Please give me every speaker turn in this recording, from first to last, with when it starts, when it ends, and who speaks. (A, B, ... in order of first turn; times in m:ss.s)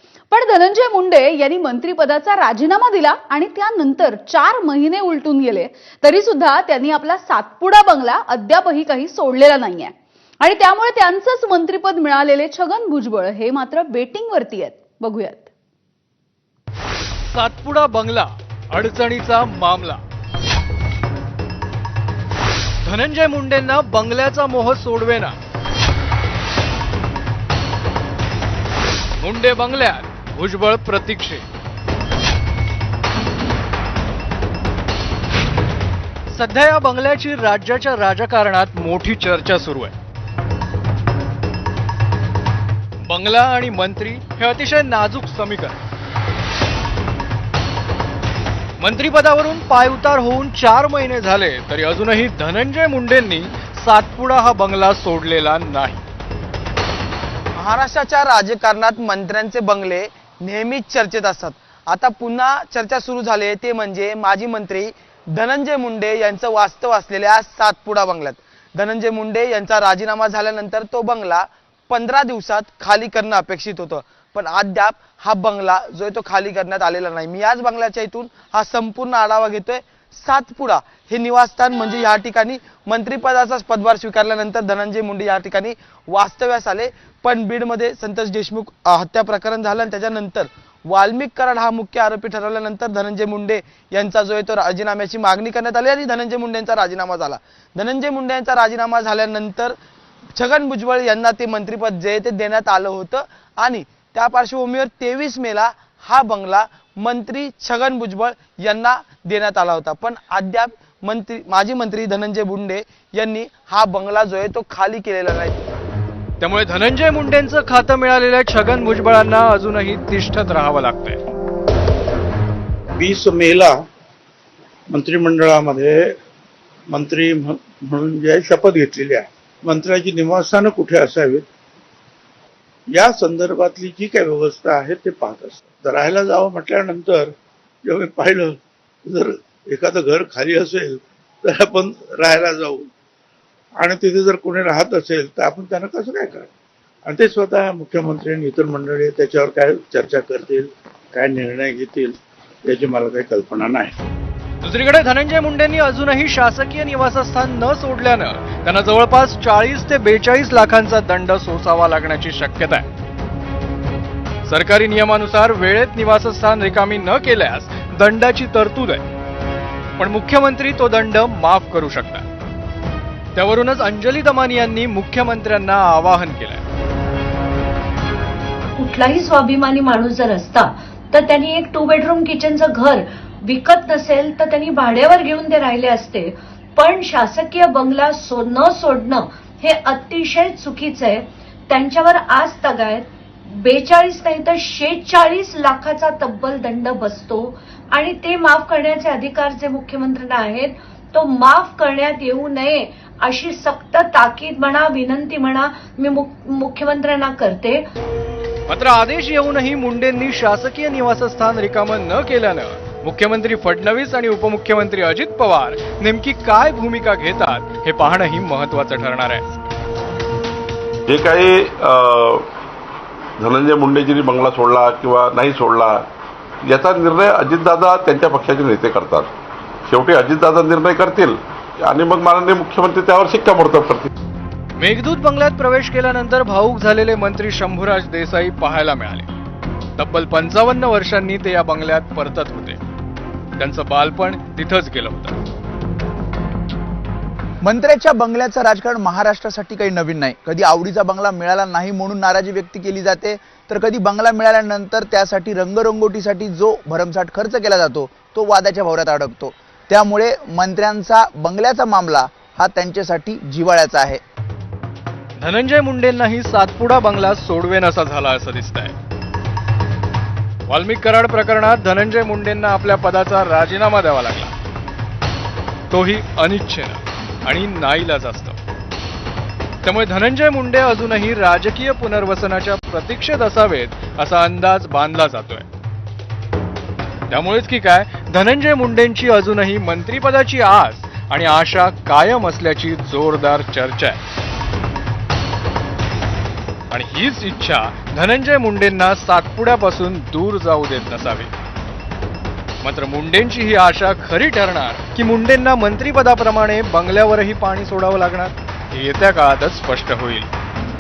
0:00.3-0:15.5 A
0:17.3-0:20.0 B
0:22.8-0:25.4 B
0:29.2-0:31.4 B
0:36.3-0:39.9 B
0:43.1-0:45.8 B
0:48.8-0:56.0 B
0:57.6-1:39.8 C
1:40.4-1:55.6 C
1:56.4-2:01.2 B
2:03.0-2:03.8 D
2:04.9-2:06.2 D
2:06.9-2:11.5 D
2:12.9-2:17.3 D
2:17.8-2:22.9 D
2:23.8-2:26.5 D
2:27.0-2:33.9 D
2:34.6-2:42.9 B
2:44.5-2:49.0 B
2:50.0-2:52.2 B
2:53.4-2:56.6 B
2:58.8-3:27.9 E
3:28.7-3:39.4 B
3:41.1-3:42.4 F
3:43.4-3:46.1 F
3:46.7-3:49.3 F
3:49.9-3:54.1 F
3:54.8-3:59.3 B
4:00.0-4:02.8 B
4:03.6-4:05.4 B
4:07.6-4:24.2 G
4:25.4-4:28.9 B
4:30.7-4:34.5 B
4:35.9-4:38.6 B
4:39.8-4:45.7 B
4:47.3-4:54.2 B
4:56.9-5:01.5 B
5:02.8-5:10.5 B